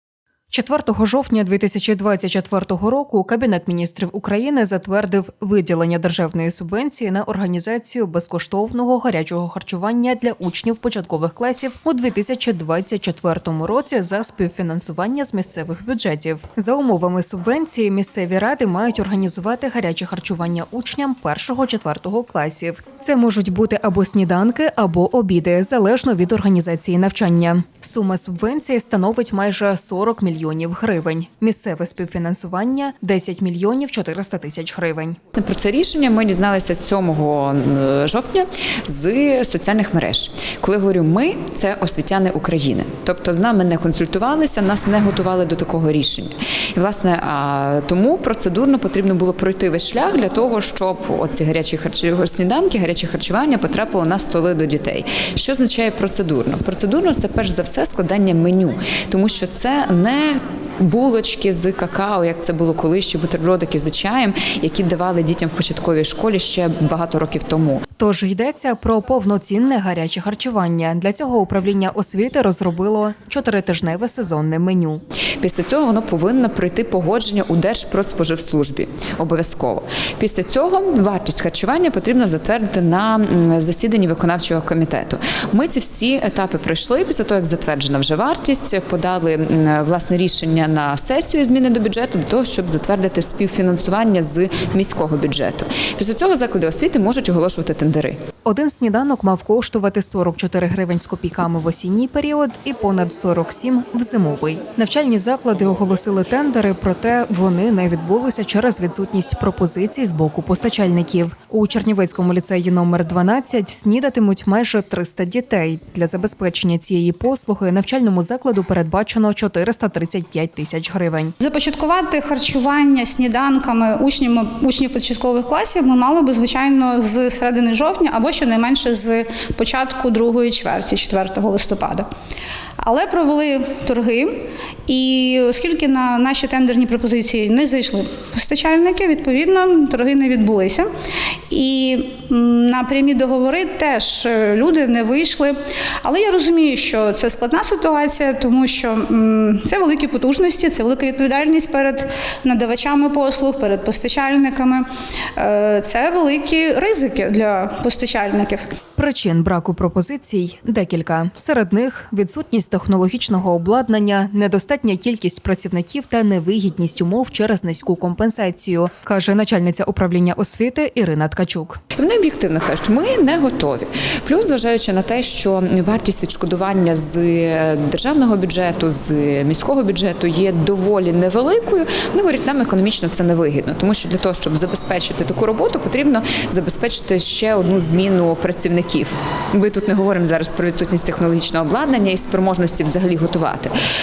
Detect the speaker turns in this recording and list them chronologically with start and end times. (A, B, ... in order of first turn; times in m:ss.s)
0:00.5-0:35.2 A
0:35.4-1:07.8 B
1:08.0-1:15.0 A
1:15.4-1:38.2 B
1:38.4-2:01.4 A
2:01.4-2:12.1 C
2:12.8-2:20.9 C
2:21.5-2:38.6 C
2:39.0-2:51.8 A
2:52.0-3:13.7 B